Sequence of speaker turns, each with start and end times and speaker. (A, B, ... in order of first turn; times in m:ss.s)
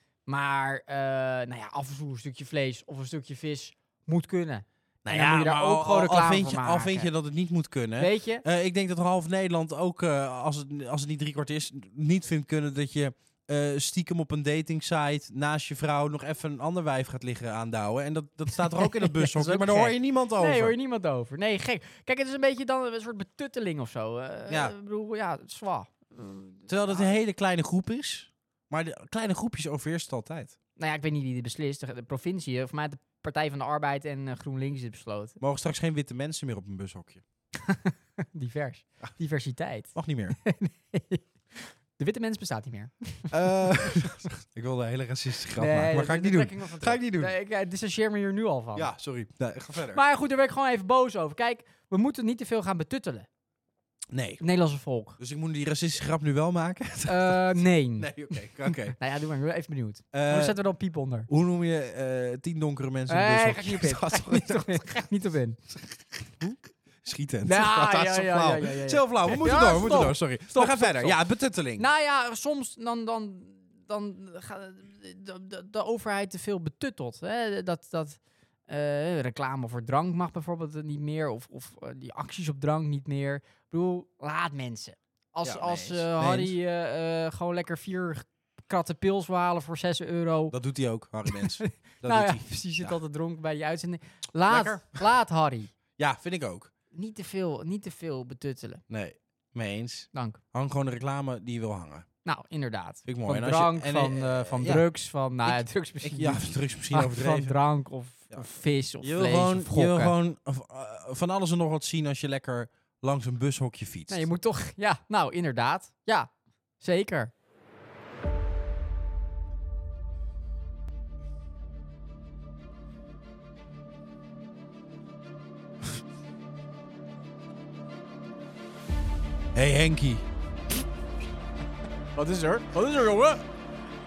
0:00.2-0:07.1 A
0:05.0-0:20.7 B
0:08.0-0:08.4 A
0:18.7-0:27.1 A
0:24.5-0:24.7 B
0:26.7-0:30.6 B
0:30.8-0:35.4 A
0:35.4-0:37.2 B
0:37.6-0:39.9 A
0:39.9-0:40.4 B
0:40.4-0:43.4 A
0:43.3-0:47.3 B
0:45.6-0:48.9 A
0:48.7-0:50.0 B
0:49.9-0:53.3 A
0:54.1-0:54.4 B
0:54.4-0:55.2 A
0:55.2-0:59.0 B
0:57.0-1:01.3 A
1:00.1-1:00.6 B
1:01.3-1:05.0 B
1:03.1-1:05.6 A
1:06.4-1:11.8 B
1:07.4-1:11.2 A
1:11.8-1:30.5 A
1:25.4-1:26.5 B
1:30.5-1:33.0 B
1:31.3-1:35.7 A
1:34.5-1:35.0 B
1:36.0-1:36.7 B
1:36.9-1:38.8 A
1:38.9-1:42.1 B
1:40.1-1:40.4 A
1:42.2-1:50.1 A
1:43.0-1:44.9 B
1:45.4-1:47.5 B
1:49.0-1:54.3 B
1:54.1-1:57.3 A
2:09.5-2:10.2 B
2:12.2-2:13.4 A